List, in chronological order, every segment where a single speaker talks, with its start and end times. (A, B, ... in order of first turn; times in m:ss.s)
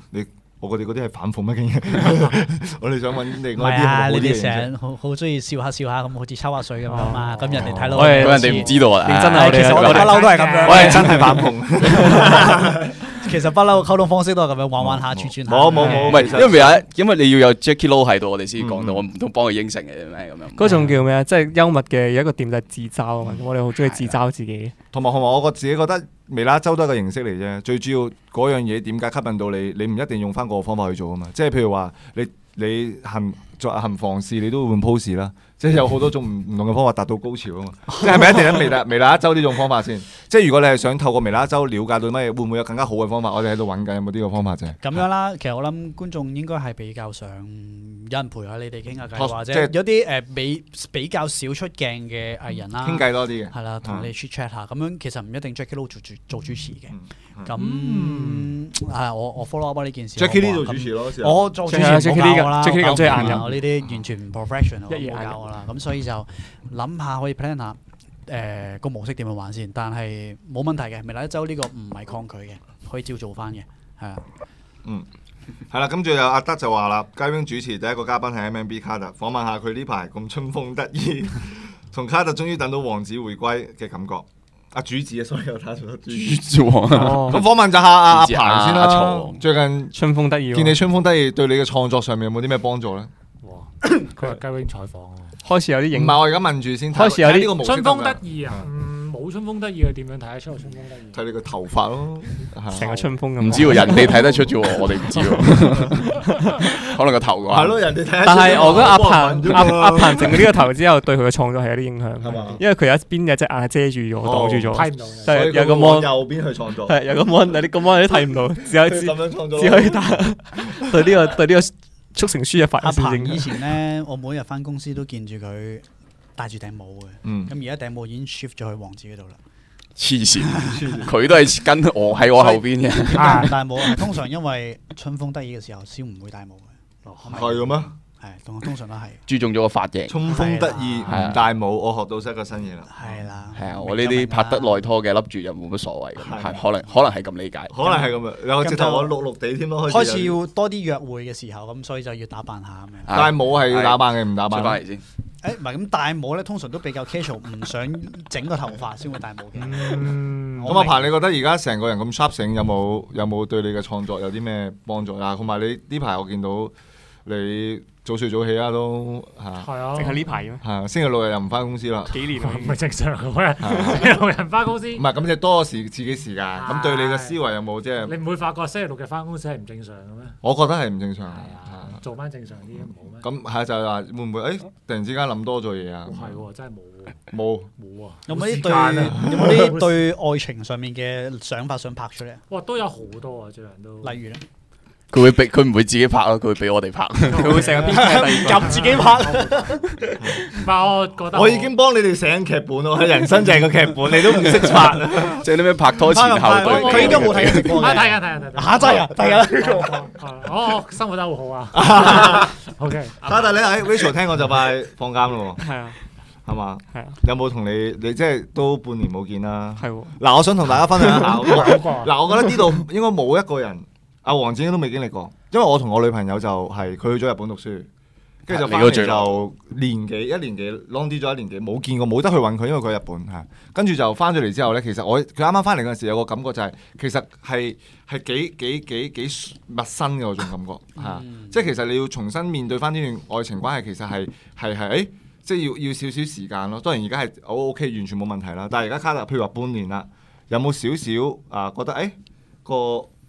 0:00.1-0:04.7 A
0:03.6-0:12.6 B
0:06.9-0:07.3 C
0:07.4-0:08.2 A
0:07.9-0:12.5 C
0:08.0-0:10.3 D
0:10.1-0:11.0 E
0:10.6-0:12.9 A
0:13.1-0:16.5 B
0:14.8-0:16.8 A
0:15.9-0:20.8 D
0:18.6-0:19.0 A
0:20.6-0:24.7 C
0:23.8-0:24.2 D
0:24.9-0:44.8 A
0:44.8-1:14.3 B
0:49.2-0:49.8 A
0:52.8-0:54.1 A
0:56.9-0:57.5 A
0:57.6-0:58.5 E
1:00.2-1:01.4 A
1:01.7-1:03.5 C
1:04.9-1:05.4 C
1:15.7-1:30.0 A
1:26.1-1:29.4 D
1:26.9-1:27.4 C
1:29.9-1:30.8 C
1:30.5-1:33.1 A
1:33.4-1:35.4 E
1:35.4-1:36.4 C
1:35.9-1:38.6 A
1:36.9-1:37.6 C
1:37.4-1:41.2 E
1:41.1-1:44.4 A
1:42.7-1:44.2 C
1:42.8-1:44.2 E
1:43.4-1:47.8 D
1:47.5-1:50.5 A
1:48.2-1:56.2 C
1:52.2-1:52.6 A
1:52.3-1:52.6 E
1:54.2-1:57.0 A
1:54.7-1:55.5 E
1:56.9-2:03.6 C
1:58.8-2:00.9 A
2:02.8-2:05.8 B
2:06.4-2:09.4 B
2:07.2-2:07.5 A
2:10.0-2:14.0 D
2:10.4-2:10.8 B
2:10.6-2:11.1 A
2:12.4-2:19.2 B
2:13.2-2:13.5 E
2:17.0-2:17.6 E
2:17.3-2:17.9 A
2:19.3-2:20.2 D
2:20.1-2:23.1 A
2:20.2-2:21.3 B
2:21.1-2:21.4 D
2:22.9-2:24.8 B
2:23.5-2:27.7 D
2:26.2-2:26.6 A
2:27.7-2:30.4 A
2:27.8-2:29.1 B
2:29.9-2:33.2 B
2:33.1-2:35.0 D
2:33.1-2:34.8 A
2:35.4-2:41.1 B
2:39.6-2:40.9 E
2:40.6-2:46.7 A
2:47.3-2:49.7 A
2:49.6-2:50.4 E
2:50.0-2:50.6 C
2:50.6-2:52.2 A
2:52.1-2:52.8 C
2:52.4-2:55.1 E
2:53.6-2:54.1 A
2:54.9-2:58.2 A
2:56.5-2:57.4 E
2:58.0-3:00.4 E
3:00.4-3:02.0 A
3:01.3-3:03.3 E
3:03.2-3:06.4 A
3:06.1-3:07.2 E
3:07.3-3:07.7 A
3:07.8-3:10.0 E
3:08.3-3:12.4 B
3:09.0-3:09.7 A
3:12.5-3:14.2 E
3:14.0-3:14.4 B
3:15.1-3:18.0 D
3:17.3-3:21.8 E
3:17.3-3:19.1 C
3:17.7-3:19.8 B
3:20.2-3:20.5 A
3:21.3-3:25.5 A
3:24.4-3:28.0 D
3:26.0-3:30.1 B
3:26.6-3:33.2 E
3:26.9-3:27.3 A
3:31.7-3:32.6 A
3:33.2-3:35.6 A
3:35.6-3:36.0 C
3:36.5-3:47.9 A
3:39.8-3:40.2 C
3:41.1-3:42.2 E
3:48.5-4:13.1 A
3:48.5-3:49.4 D
4:01.0-4:01.6 B